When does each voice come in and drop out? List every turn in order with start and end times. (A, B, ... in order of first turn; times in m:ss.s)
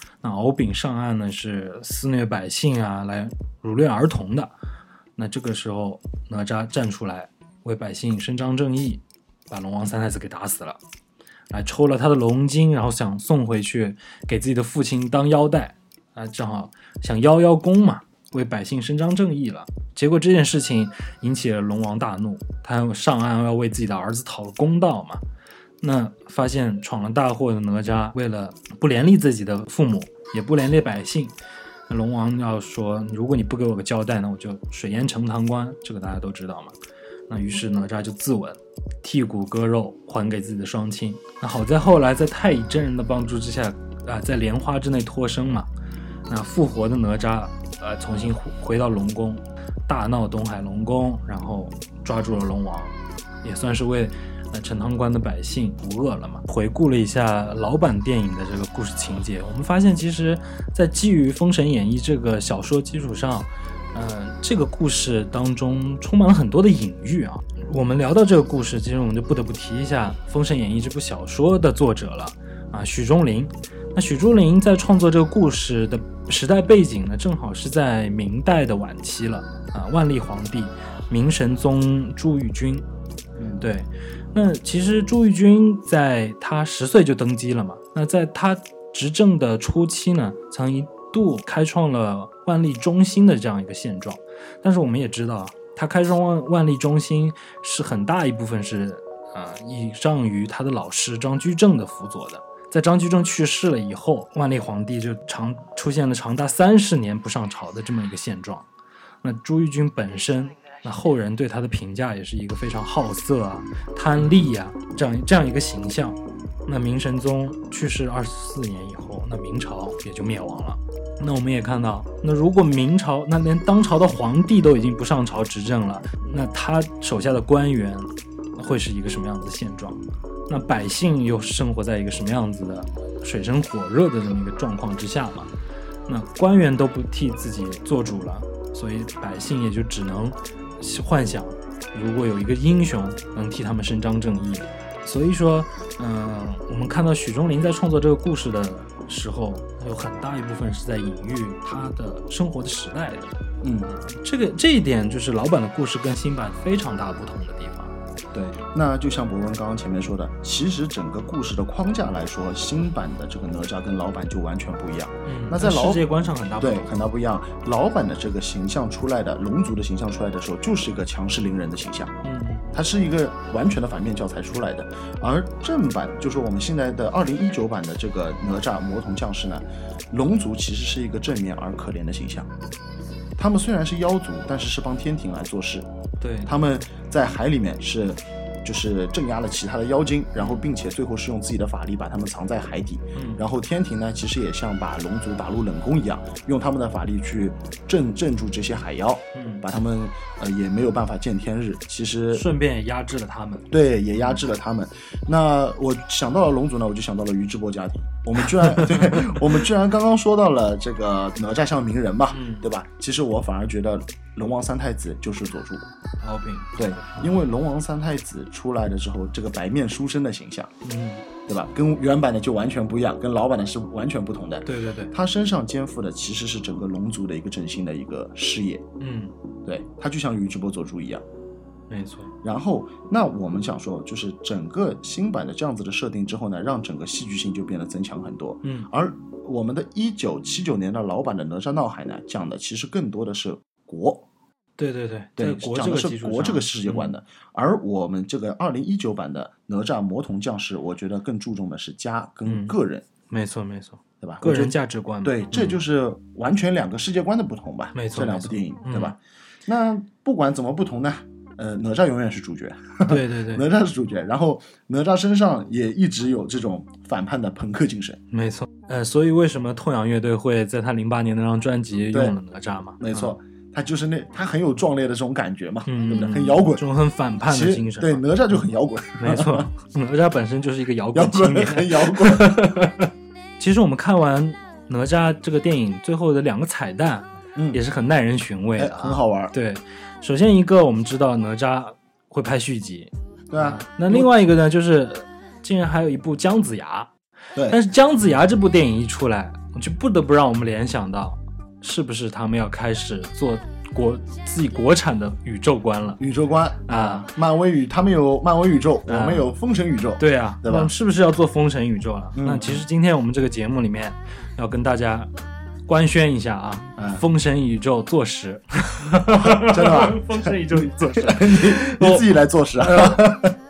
0:00.2-0:04.5 A
0:05.2-0:10.8 A
0:11.5-0:25.2 A
0:25.8-0:31.3 A
0:31.9-0:36.8 A
0:37.3-0:45.7 A
0:46.3-1:22.8 A
1:23.4-1:23.6 B
1:23.6-1:48.6 A
1:49.2-2:15.5 A
2:16.1-2:33.3 A
2:33.6-2:33.9 B
2:33.9-2:37.9 A
2:38.3-2:46.1 B
2:45.2-2:46.9 A
2:46.6-2:52.1 B
2:52.2-2:52.8 A
2:52.7-3:02.5 B
3:03.4-3:05.9 B
3:06.2-3:06.5 A
3:06.4-3:22.4 B
3:10.4-3:10.6 A
3:13.2-3:13.4 A
3:19.3-3:19.6 A
3:22.3-3:23.7 A
3:23.7-3:35.8 B
3:28.8-3:29.3 A
3:32.3-3:32.6 A
3:36.2-3:37.3 A
3:36.8-3:40.7 B
3:40.8-3:41.2 A
3:41.5-3:48.8 B
3:44.6-3:45.1 A
3:49.0-3:49.3 A
3:49.6-3:51.2 B
3:51.9-3:52.3 A
3:52.4-4:04.2 B
3:58.6-3:58.9 A
4:04.8-4:07.1 A
4:05.4-4:13.0 B
4:12.4-4:12.8 A
4:13.3-4:15.8 A
4:14.2-4:28.2 B
4:17.9-4:19.1 A
4:23.0-4:23.6 A
4:28.3-4:33.3 A
4:32.1-4:32.4 B
4:33.0-4:36.8 B
4:35.8-4:38.2 A
4:37.4-4:39.7 B
4:39.2-4:57.1 A
4:41.1-4:42.8 B
4:47.5-4:47.8 B
4:48.8-4:49.5 B
4:53.5-4:54.3 B
4:57.7-5:06.2 A
5:06.2-5:10.9 B
5:06.9-5:07.3 A
5:09.1-5:09.5 A
5:10.2-5:15.3 A
5:12.4-5:12.8 B
5:15.8-5:23.4 A
5:17.0-5:17.2 B
5:19.3-5:23.5 B